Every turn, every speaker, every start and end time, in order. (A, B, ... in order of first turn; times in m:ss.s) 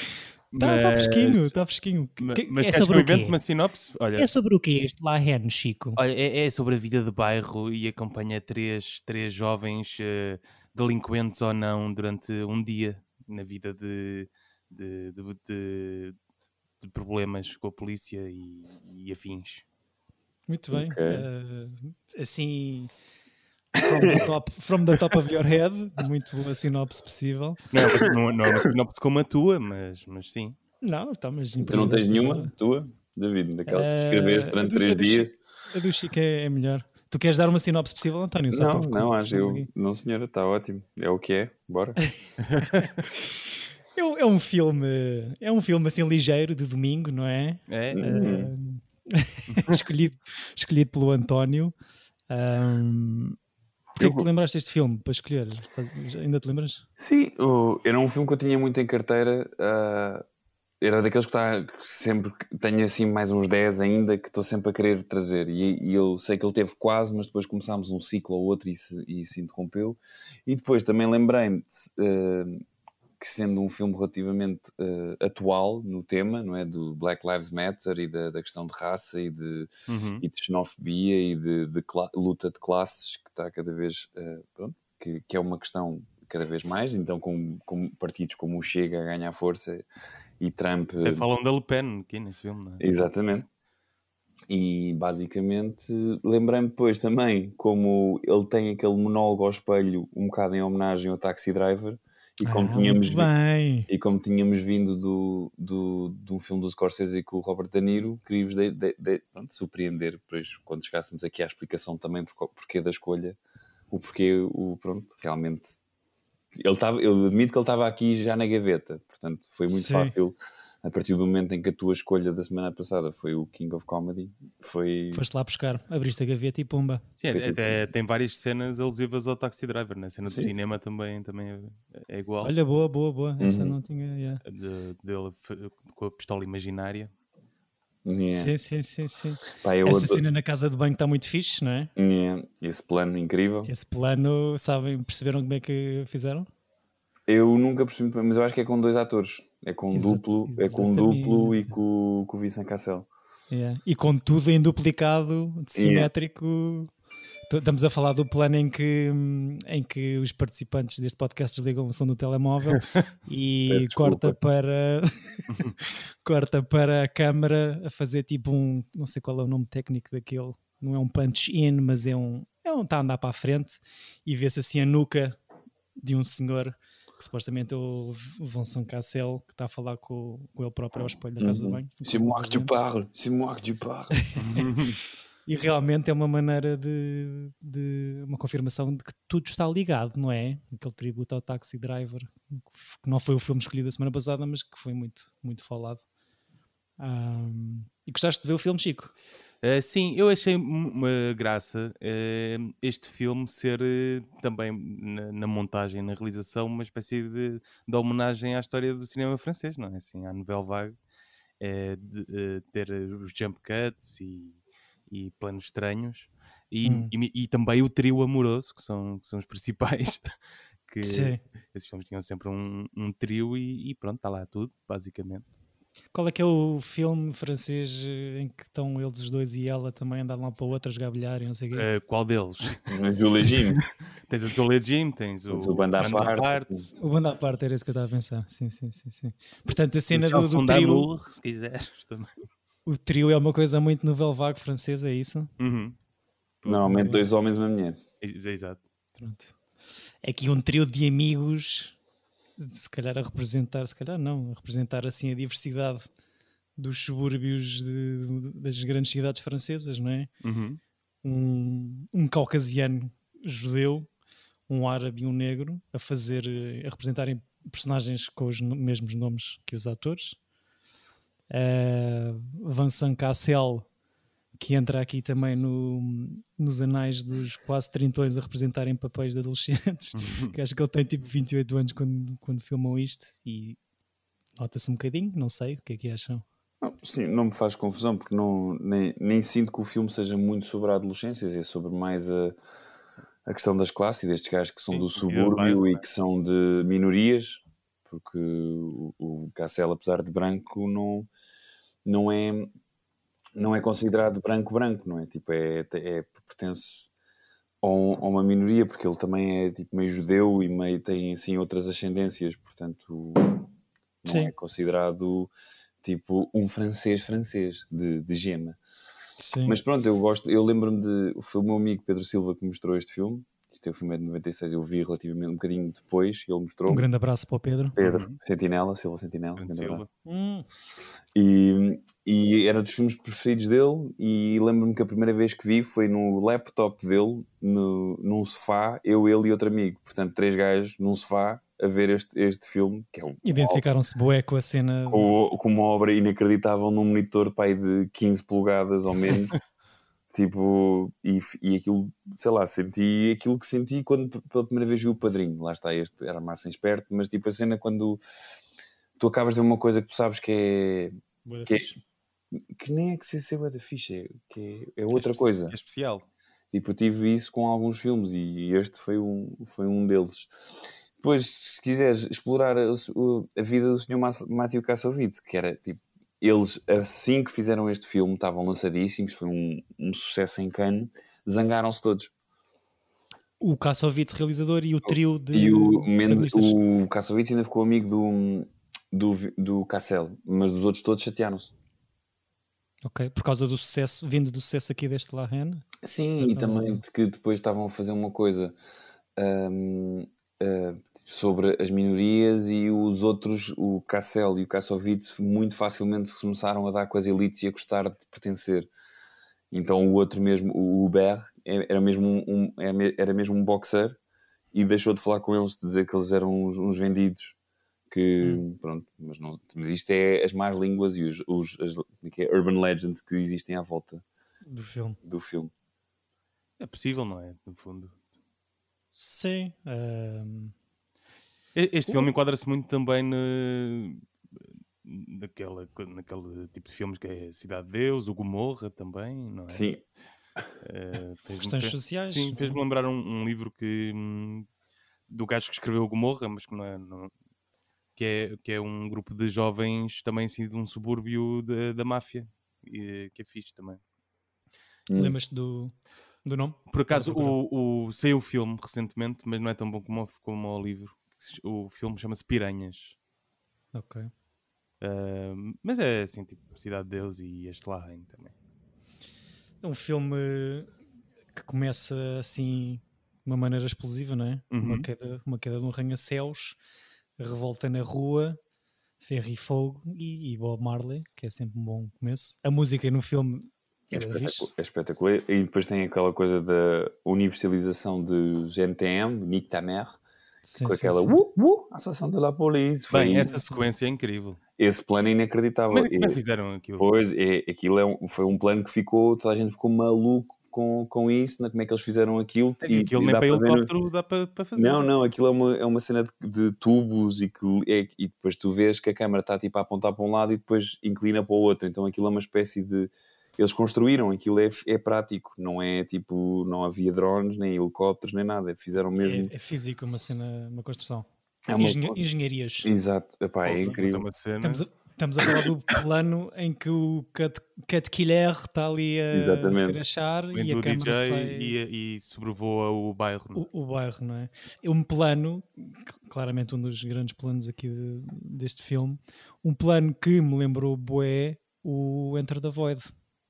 0:00.5-0:01.5 A
0:00.5-0:03.4 B
0:02.2-0:04.3 A
0:04.2-0:06.0 B
0:06.0-0:16.2 A
0:16.8-0:19.6 A
0:20.5-0:22.9 B
0:20.7-0:21.2 C
0:23.7-0:27.6 B
0:24.0-0:24.3 C
0:27.7-0:30.6 A
0:28.0-0:28.7 C
0:30.8-0:32.5 B
0:31.6-0:35.3 C
0:33.7-0:39.7 B
0:38.5-0:42.0 C
0:42.5-0:42.9 A
0:43.9-0:51.7 B
0:47.7-0:48.1 A
0:47.9-0:48.5 C
0:49.5-0:49.8 A
0:52.3-0:53.4 B
0:54.0-0:54.3 C
0:54.0-0:56.8 B
0:57.0-1:00.2 C
1:00.8-1:12.6 C
1:13.2-1:29.8 C
1:19.9-1:20.2 A
1:30.4-1:31.2 C
1:31.0-1:32.9 A
1:32.8-1:33.5 C
1:34.5-1:43.3 C
1:42.4-1:43.9 B
1:43.9-1:53.4 C
1:53.9-1:55.7 C
1:56.6-2:05.2 C
1:59.7-2:00.1 B
2:05.1-2:07.0 B
2:07.2-2:12.5 A
2:07.3-2:07.9 C
2:12.4-2:14.4 B
2:13.4-2:13.8 C
2:14.4-2:17.1 A
2:18.0-2:18.5 C
2:18.3-2:21.9 B
2:19.6-2:20.2 C
2:22.0-2:23.7 C
2:23.6-2:26.5 B
2:27.3-2:33.1 C
2:29.9-2:31.7 B
2:33.5-2:36.9 B
2:35.8-2:36.1 C
2:37.5-2:55.4 B
2:43.7-2:44.4 C
2:56.0-3:02.8 B
3:01.4-3:04.1 C
3:04.2-3:04.6 B
3:04.4-3:05.0 A
3:05.4-3:16.0 B
3:17.0-3:19.1 B
3:19.6-3:30.9 A
3:31.6-3:34.6 A
3:35.1-3:40.3 A
3:36.8-3:37.1 B
3:40.9-3:45.4 A
3:41.0-3:41.4 B
3:46.1-3:51.9 B
3:51.7-3:52.9 A
3:52.9-3:53.8 C
3:53.6-3:56.9 A
3:55.5-3:56.8 C
3:57.0-4:01.1 B
4:00.1-4:02.3 A
4:02.8-4:05.5 B
4:05.6-4:06.0 A
4:06.6-4:06.9 A
4:06.6-4:08.0 C
4:06.8-4:07.3 B
4:08.2-4:08.8 A
4:09.2-4:09.5 B
4:10.2-4:12.0 B
4:12.6-4:16.1 B
4:16.8-4:20.3 B
4:20.4-4:20.8 A
4:21.2-4:24.1 B
4:24.7-4:30.4 B
4:31.5-4:33.9 B
4:34.6-4:43.8 B
4:40.1-4:40.5 A
4:44.6-4:46.4 B
4:46.8-4:52.6 C
4:53.4-5:01.3 C
4:54.9-4:56.0 A
5:02.0-5:02.7 C
5:03.6-5:07.1 C
5:07.8-5:13.7 C
5:14.2-5:15.5 C
5:14.2-5:14.5 B
5:16.0-5:18.8 C
5:19.4-5:19.8 B
5:19.6-5:27.1 C
5:26.9-5:27.9 B
5:28.0-5:30.0 C
5:28.0-5:28.4 A
5:29.6-5:30.1 A
5:30.2-5:30.6 B
5:31.3-5:43.8 C
5:43.4-5:45.3 B
5:45.1-5:49.5 C
5:50.3-5:58.2 C
5:59.2-6:01.1 C
6:01.4-6:02.0 B
6:01.6-6:01.9 C
6:02.6-6:05.7 C
6:05.1-6:06.2 A
6:06.7-6:10.5 C
6:11.2-6:22.3 C
6:23.6-6:26.8 B
6:25.5-6:31.7 C
6:33.0-6:37.0 B
6:36.0-6:38.8 C
6:39.4-6:48.9 C
6:49.7-6:54.2 C
6:54.7-6:57.6 C
6:58.1-7:04.2 C
7:04.6-7:05.2 B
7:05.2-7:05.7 C
7:06.8-7:08.2 A
7:09.1-7:10.7 B
7:11.7-7:14.2 A
7:15.0-7:19.9 A
7:19.7-7:20.0 C
7:20.8-7:24.7 A
7:21.6-7:22.8 B
7:25.3-7:27.3 A
7:28.2-7:34.0 A
7:35.1-7:35.3 C
7:35.2-7:35.9 B
7:36.4-7:37.6 B
7:36.9-7:43.2 A
7:43.9-7:44.3 B
7:45.0-7:48.5 A
7:49.8-7:50.9 B
7:51.5-7:56.8 B
7:54.7-7:55.1 A
7:57.4-7:58.6 B
7:59.2-8:04.7 B
8:04.1-8:10.2 C
8:10.6-8:11.3 B
8:10.8-8:13.5 C
8:13.1-8:14.6 A
8:13.4-8:13.8 B
8:14.8-8:16.4 C
8:15.9-8:17.1 A
8:17.0-8:23.9 C
8:22.8-8:25.1 A
8:24.8-8:39.5 C
8:39.2-8:42.9 B
8:41.7-8:42.2 C
8:42.8-8:44.3 C
8:43.6-8:44.8 A
8:44.6-8:51.7 B
8:49.3-8:50.0 C
8:50.5-8:53.6 A
8:53.5-9:03.1 B